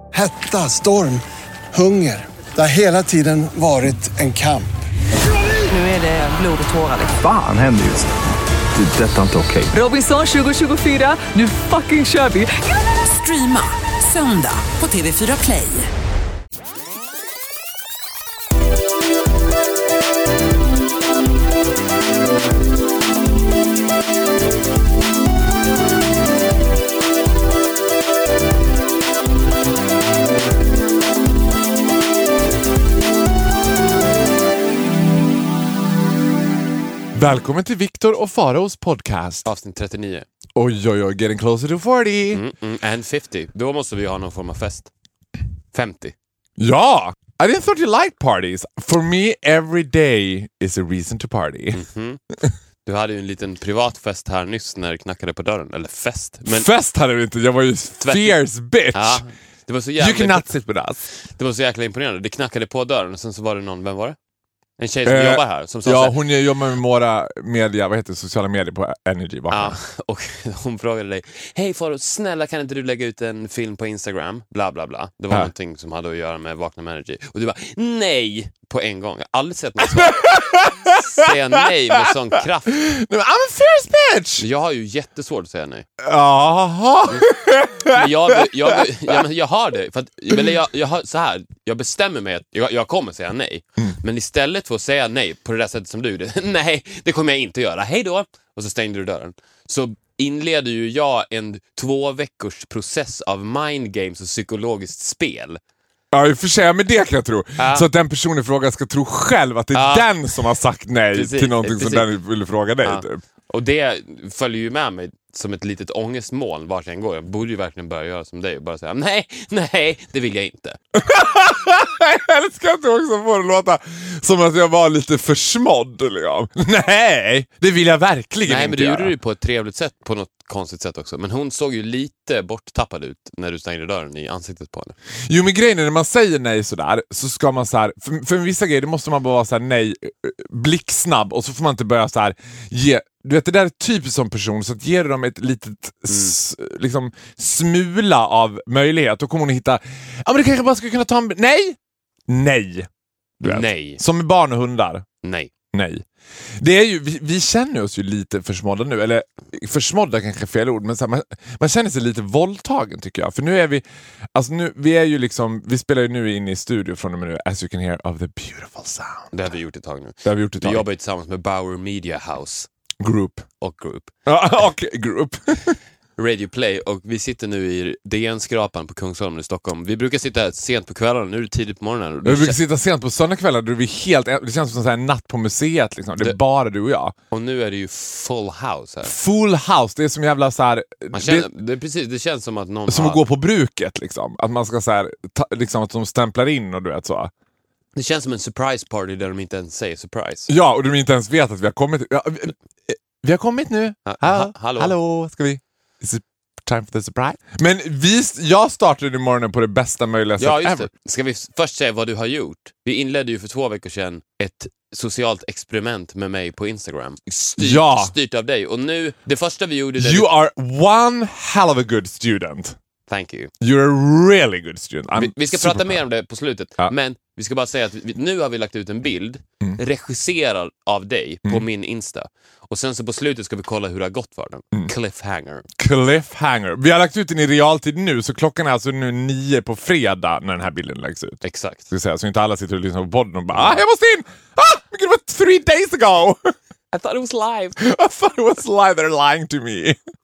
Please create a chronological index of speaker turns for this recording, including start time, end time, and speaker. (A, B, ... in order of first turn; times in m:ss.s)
0:00.1-0:04.7 A
0:05.6-0:07.1 B
0:07.1-0:08.1 C
0:08.7-0:09.7 C
0:09.7-0:15.9 B
0:37.1-0:39.4 D
0:39.4-0:40.3 E
0:40.5-0:42.4 D
0:42.3-0:44.9 E
0:45.7-0:46.1 E
0:46.6-0:51.8 D
0:51.7-0:52.2 E
0:52.8-0:56.7 E
0:56.4-0:59.2 D
0:58.0-0:58.4 E
0:58.9-1:00.5 E
1:00.0-1:01.1 D
1:01.2-1:04.2 E
1:04.8-1:06.2 E
1:05.0-1:09.8 D
1:09.5-1:22.8 E
1:19.8-1:22.1 D
1:22.7-1:24.4 D
1:24.4-1:25.8 E
1:26.0-1:29.2 D
1:27.9-1:45.6 E
1:46.1-1:53.2 D
1:47.6-1:47.9 E
1:49.7-1:50.2 E
1:51.1-1:52.1 E
1:52.8-2:00.8 E
2:00.9-2:09.1 D
2:08.5-2:14.9 E
2:15.3-2:31.8 D
2:26.1-2:26.4 E
2:32.3-2:32.9 D
2:33.4-2:35.0 D
2:33.4-2:34.0 E
2:35.2-2:35.5 E
2:35.7-2:36.0 D
2:36.6-2:49.3 D
2:49.3-2:52.7 E
2:50.2-2:50.8 D
2:53.0-2:53.4 D
2:53.6-2:54.1 E
2:54.2-2:55.8 D
2:56.2-3:02.6 E
3:02.2-3:07.1 D
3:07.3-3:09.1 E
3:09.0-3:11.5 D
3:11.1-3:13.2 E
3:12.9-3:17.3 D
3:17.9-3:20.5 E
3:20.5-3:30.9 D
3:24.0-3:24.9 E
3:30.4-3:40.3 E
3:37.6-3:38.1 D
3:40.0-3:42.8 D
3:43.1-3:43.5 E
3:43.6-3:46.0 D
3:45.1-3:55.6 E
3:55.8-4:06.5 D
4:01.4-4:01.9 E
4:06.9-4:07.8 E
4:07.8-4:10.0 D